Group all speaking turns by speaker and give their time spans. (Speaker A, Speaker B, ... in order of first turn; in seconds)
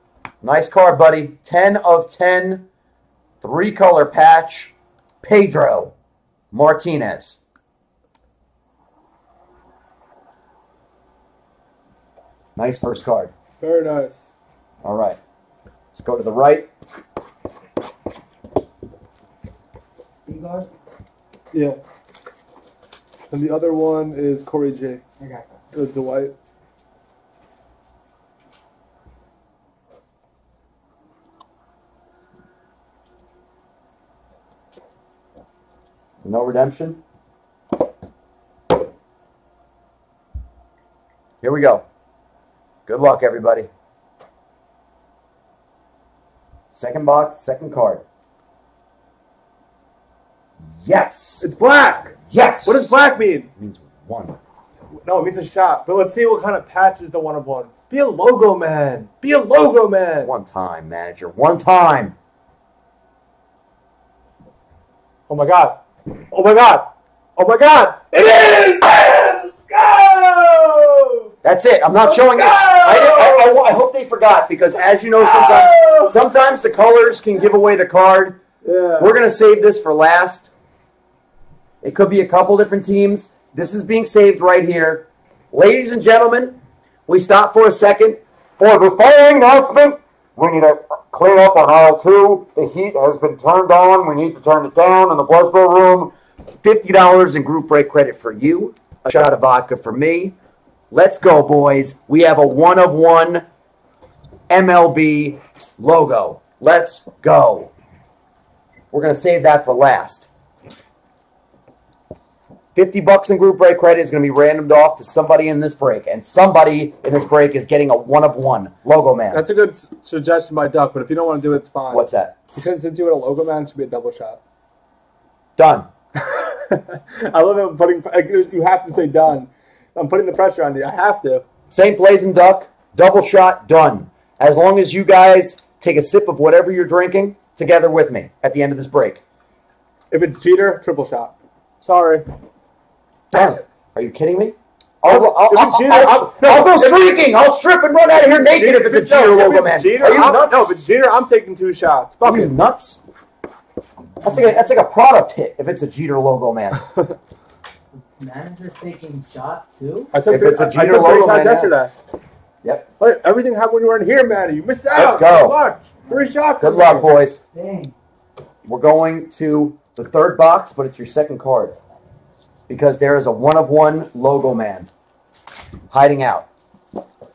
Speaker A: 0.4-2.7, 3.4-5.9, 6.5-7.4, 12.6-13.3, 14.8-15.2, 15.9-16.7, 36.2-37.0, 41.4-41.9, 42.9-43.7, 46.7-48.0, 50.8-51.5, 52.3-53.0, 53.6-54.4, 60.2-62.1, 71.4-78.4, 79.0-80.5, 81.8-100.4, 100.9-103.5, 104.5-107.7, 108.9-110.3, 112.8-119.5, 121.9-122.5, 125.6-125.9, 131.7-139.2, 143.3-150.7, 152.2-153.0, 154.2-156.9, 160.3-161.7, 164.9-165.6, 166.6-167.4, 168.7-171.8, 172.7-174.9, 175.9-176.5
Speaker B: 13.6-14.2, 21.5-21.8, 23.3-25.0, 25.7-26.4, 51.4-53.5, 55.0-60.3, 65.3-71.3, 72.0-73.6, 75.2-76.1, 78.6-79.1, 119.3-124.4, 126.2-131.5, 140.1-142.3, 145.0-147.0, 148.3-152.5, 160.1-161.9, 163.0-167.1
Speaker C: 20.3-20.7, 25.2-25.6, 158.2-160.1, 167.5-167.9